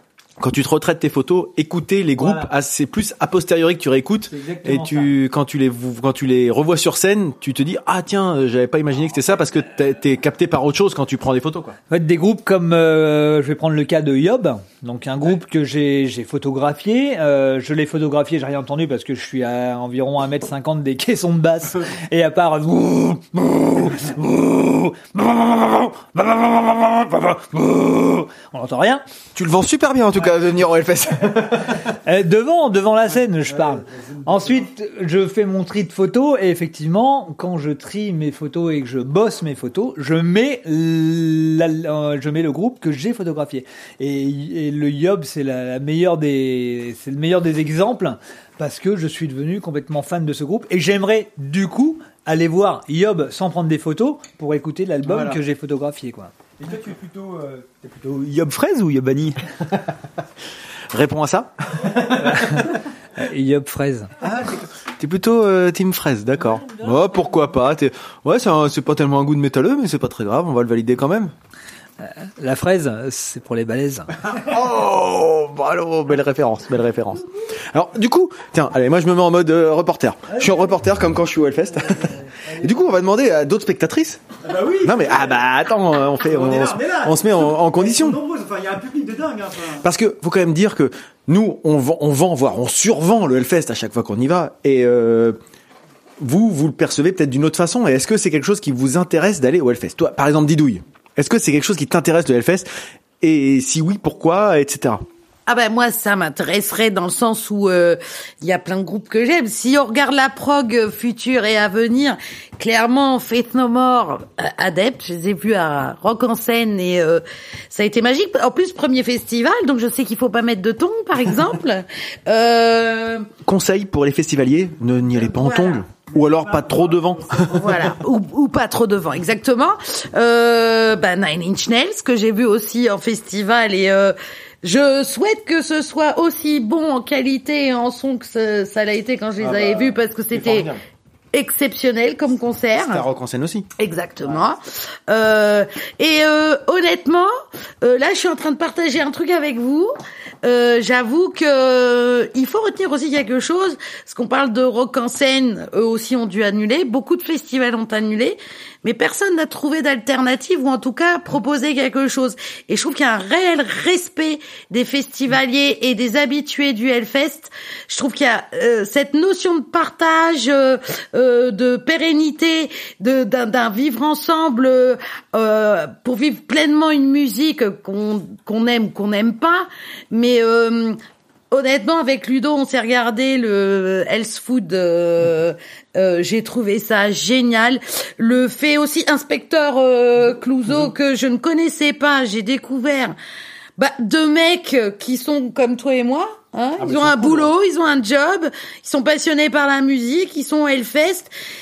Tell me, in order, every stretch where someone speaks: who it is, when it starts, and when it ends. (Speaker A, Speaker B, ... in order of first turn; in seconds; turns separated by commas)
Speaker A: 0.4-11.8, Speaker B: 2.2-2.5, Speaker B: 4.3-5.1, Speaker B: 11.9-29.0, Speaker A: 29.4-31.9, Speaker B: 32.0-56.3, Speaker C: 33.5-34.7, Speaker A: 55.0-55.4, Speaker C: 56.6-59.4, Speaker A: 60.9-62.7, Speaker B: 62.2-64.1, Speaker A: 64.2-71.3, Speaker B: 66.4-67.5, Speaker B: 72.0-74.1, Speaker A: 74.2-84.2, Speaker C: 82.4-82.8, Speaker C: 84.4-85.5, Speaker A: 84.8-88.2, Speaker C: 86.2-89.9, Speaker A: 89.8-95.4, Speaker A: 96.2-102.7, Speaker A: 103.2-105.0, Speaker D: 105.5-123.3, Speaker A: 123.5-127.9, Speaker D: 125.3-125.8, Speaker C: 126.6-127.2, Speaker D: 127.5-140.7, Speaker A: 139.4-140.8, Speaker D: 141.3-143.1, Speaker A: 142.8-143.7, Speaker D: 143.8-181.0, Speaker A: 144.2-144.5, Speaker D: 181.5-193.2, Speaker A: 190.7-190.9, Speaker D: 193.8-201.3, Speaker A: 196.8-197.5